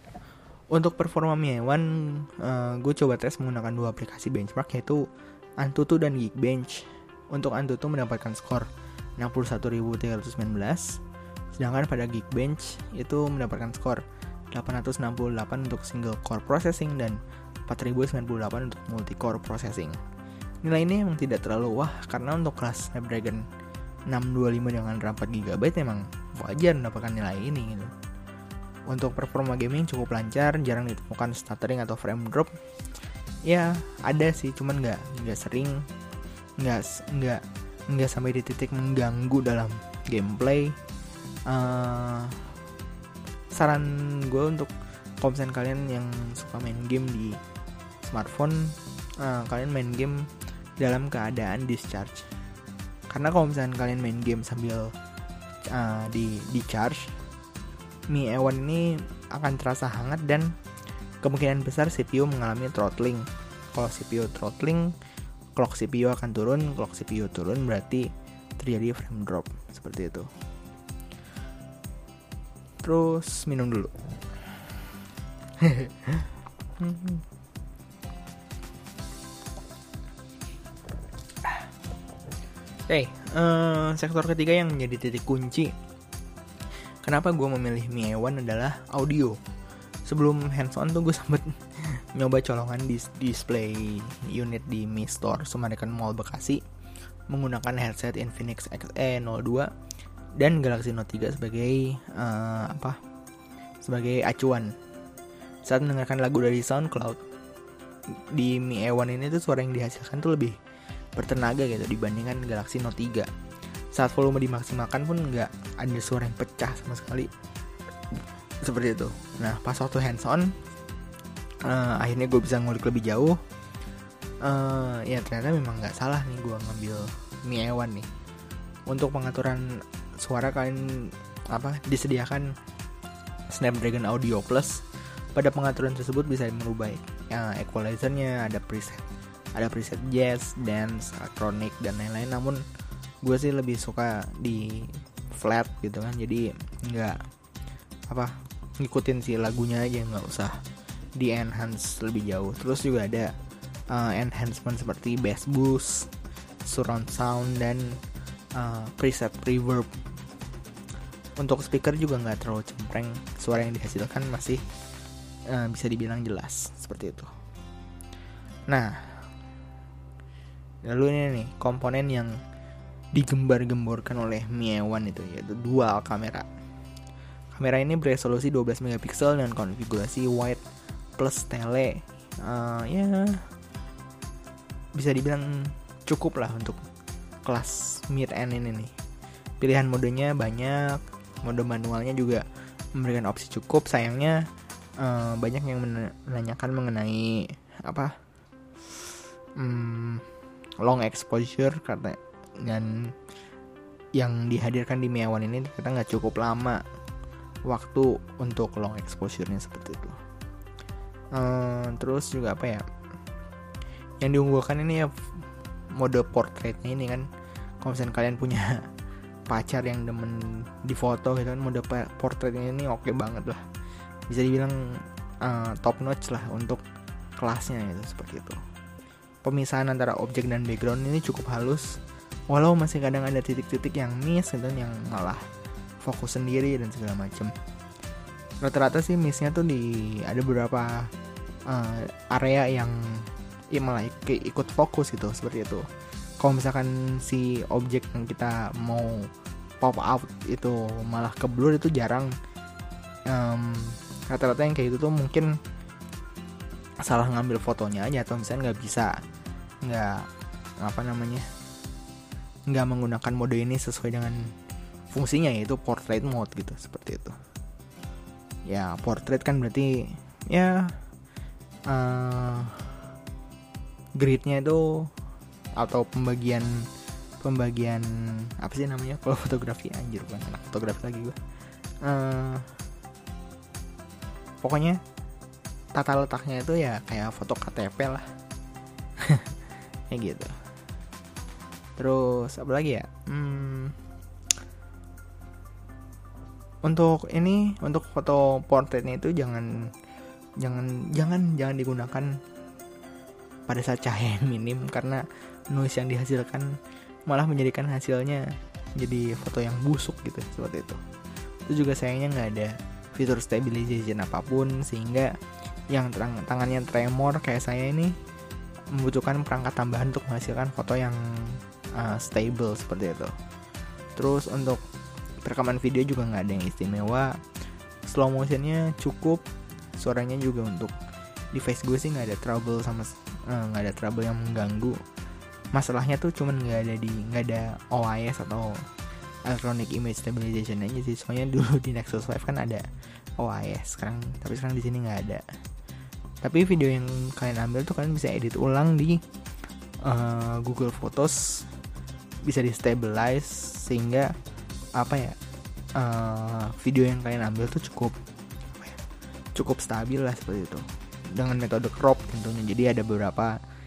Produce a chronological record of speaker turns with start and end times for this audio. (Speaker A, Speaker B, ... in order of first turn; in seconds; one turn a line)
Speaker A: 0.7-5.0
Speaker A: 5.6-11.0
Speaker A: 11.6-20.0
Speaker A: 20.6-23.4
Speaker A: 24.1-27.9
Speaker A: 28.9-32.5
Speaker A: 33.5-35.9
Speaker A: 36.6-40.8
Speaker A: 41.5-42.5
Speaker A: 43.5-47.4
Speaker A: 48.0-52.3
Speaker A: 53.1-54.9
Speaker A: 55.7-57.1
Speaker A: 58.1-60.5
Speaker A: 61.2-64.9
Speaker A: 65.5-70.3
Speaker A: 72.8-73.9
Speaker A: 75.6-77.2
Speaker A: 82.9-85.7
Speaker A: 87.0-89.4
Speaker A: 90.1-96.6
Speaker A: 97.3-99.7
Speaker A: 100.4-103.0
Speaker A: 103.8-104.8
Speaker A: 105.6-107.2
Speaker A: 108.3-110.6
Speaker A: 111.2-113.3
Speaker A: 113.9-117.3
Speaker A: 118.6-120.5
Speaker A: 121.6-123.4
Speaker A: 124.4-128.1
Speaker A: 128.9-132.5
Speaker A: 133.5-139.0
Speaker A: 139.6-142.6
Speaker A: 143.2-147.2
Speaker A: 148.1-150.6
Speaker A: 151.2-153.3
Speaker A: 153.9-156.1
Speaker A: 156.6-158.0
Speaker A: 158.5-159.9
Speaker A: 161.4-164.6
Speaker A: 165.5-167.3
Speaker A: 168.7-169.3
Speaker A: 170.9-172.4
Speaker A: 173.1-176.5
Speaker A: 177.5-180.6
Speaker A: 181.2-183.4
Speaker A: 184.9-186.8
Speaker A: 187.4-188.9
Speaker A: 189.6-192.4
Speaker A: 192.9-194.4
Speaker A: 195.0-198.1
Speaker A: 199.6-200.2
Speaker A: 200.8-203.1
Speaker A: 204.2-206.8
Speaker A: 207.7-210.2
Speaker A: 211.3-212.8
Speaker A: 214.2-215.1
Speaker A: 216.0-217.3
Speaker A: 217.8-218.8
Speaker A: 219.5-223.6
Speaker A: 224.3-226.8
Speaker A: 227.4-228.6
Speaker A: 229.4-232.0
Speaker A: 232.5-235.4
Speaker A: 236.0-237.5
Speaker A: 238.6-241.1
Speaker A: 241.7-245.8
Speaker A: 246.4-249.3
Speaker A: 249.8-252.3
Speaker A: 253.3-255.6
Speaker A: 257.0-259.1
Speaker A: 259.8-260.3
Speaker A: 260.8-261.5
Speaker A: 262.7-264.5
Speaker A: 265.1-267.3
Speaker A: 268.7-270.9
Speaker A: 271.9-272.9
Speaker A: 274.2-275.1
Speaker A: 275.8-276.9
Speaker A: 277.4-281.4
Speaker A: 282.0-282.7
Speaker A: 284.6-285.0
Speaker A: 285.9-288.3
Speaker A: 289.2-289.6
Speaker A: 290.1-290.5
Speaker A: 292.0-294.0
Speaker A: 296.8-299.9
Speaker A: 300.6-302.4
Speaker A: 303.7-311.0
Speaker A: 311.7-315.3
Speaker A: 315.9-318.1
Speaker A: 318.9-323.3
Speaker A: 324.1-324.8
Speaker A: 325.4-327.4
Speaker A: 328.1-329.4
Speaker A: 330.0-330.9
Speaker A: 331.5-335.0
Speaker A: 335.7-338.8
Speaker A: 339.4-342.8
Speaker A: 343.4-345.4
Speaker A: 346.4-349.2
Speaker A: 350.0-351.6
Speaker A: 352.4-354.3
Speaker A: 354.9-355.4
Speaker A: 356.0-358.1
Speaker A: 359.5-363.6